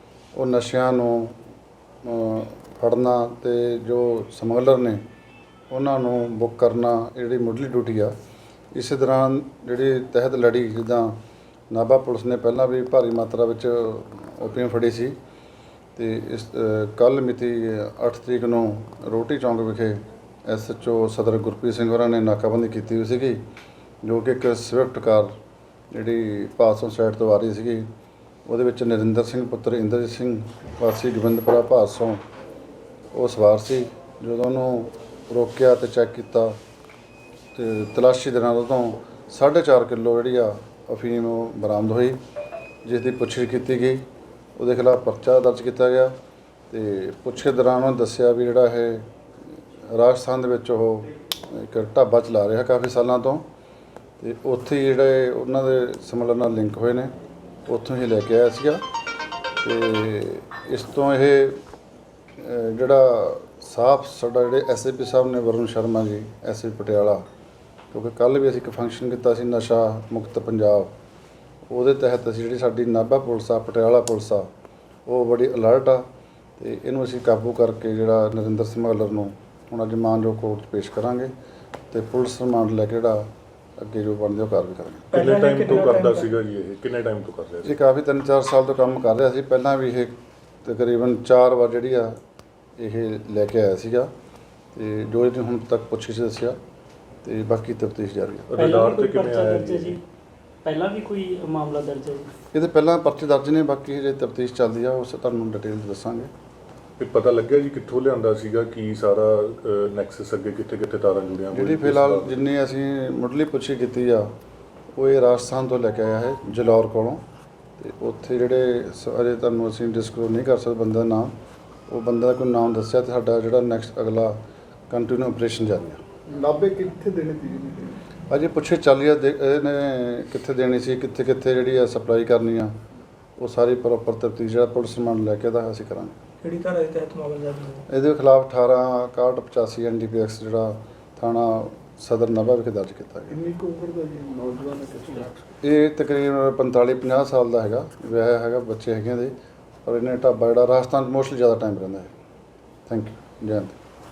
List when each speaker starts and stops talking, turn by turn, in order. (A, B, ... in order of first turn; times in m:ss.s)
0:00.3-0:01.4 A
0:02.0-0:05.0 A
0:05.7-0:08.1 A
0:08.7-0:11.2 A
0:11.7-0:15.2 A
0:16.0-0:23.4 A
0:24.0-0:25.3 A
0:25.9-0:27.9 A
0:28.5-0:32.2 A
0:33.1-0:36.6 A
0:37.5-0:42.2 A
0:42.8-0:44.0 A
0:44.6-0:46.1 A
0:46.7-0:53.4 A
0:54.2-0:57.1 A
0:57.7-0:58.8 A
0:59.6-1:01.6 A
1:02.4-1:07.2 A
1:07.9-1:10.9 A
1:11.7-1:14.5 A
1:15.0-1:16.0 A
1:16.6-1:21.3 A
1:21.9-1:23.3 A
1:23.8-1:25.1 A
1:25.1-1:26.3 B
1:25.1-1:27.7 C
1:27.6-1:32.2 A
1:32.8-1:34.1 A
1:34.7-1:36.6 A
1:37.2-1:38.5 A
1:38.5-1:40.0 C
1:38.6-1:40.0 D
1:40.6-1:42.3 D
1:42.5-1:46.3 A
1:47.0-1:52.4 C
1:51.5-1:54.3 A
1:54.9-1:57.2 A
1:57.8-2:01.3 A
2:01.9-2:04.4 A
2:04.9-2:06.0 A
2:06.3-2:08.0 E
2:08.3-2:12.8 A
2:13.4-2:16.1 A
2:16.4-2:17.8 B
2:17.9-2:23.4 A
2:23.3-2:25.3 E
2:25.6-2:29.3 A
2:29.8-2:32.1 A
2:32.9-2:33.8 A